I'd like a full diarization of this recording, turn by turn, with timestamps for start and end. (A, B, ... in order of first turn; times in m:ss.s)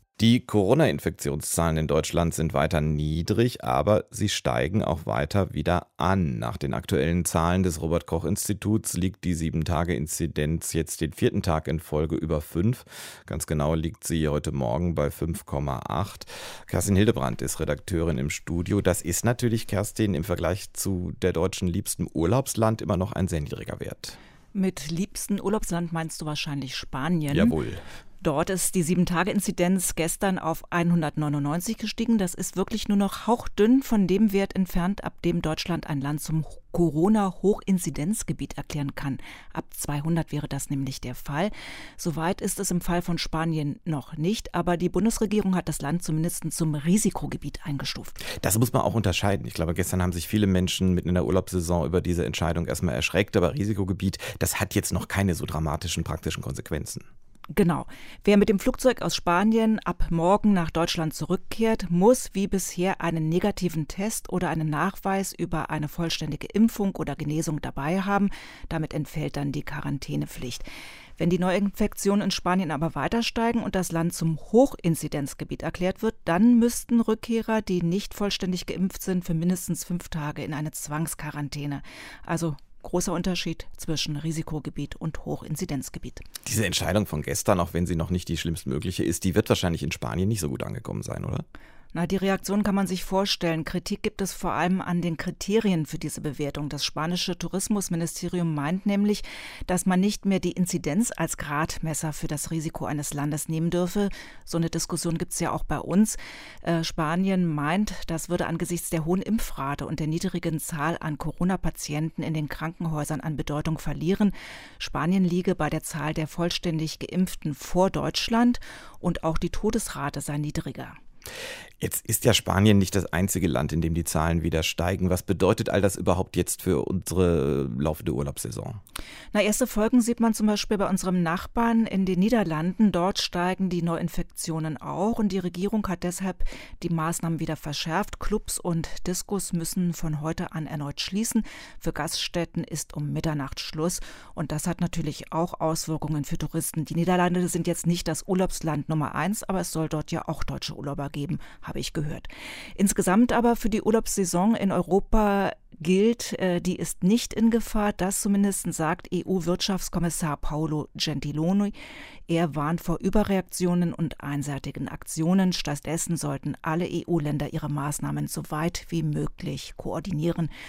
0:00.2-0:24.2 A
0:24.5-0:27.6 B
0:27.3-0:27.8 A
0:28.2-0:48.2 B
0:48.4-0:57.1 A
0:57.5-1:10.7 B
1:11.2-1:26.2 B
1:26.4-1:31.5 A
1:31.9-2:01.0 B
2:01.8-2:08.8 A
2:09.3-2:41.8 B
2:42.3-2:50.5 B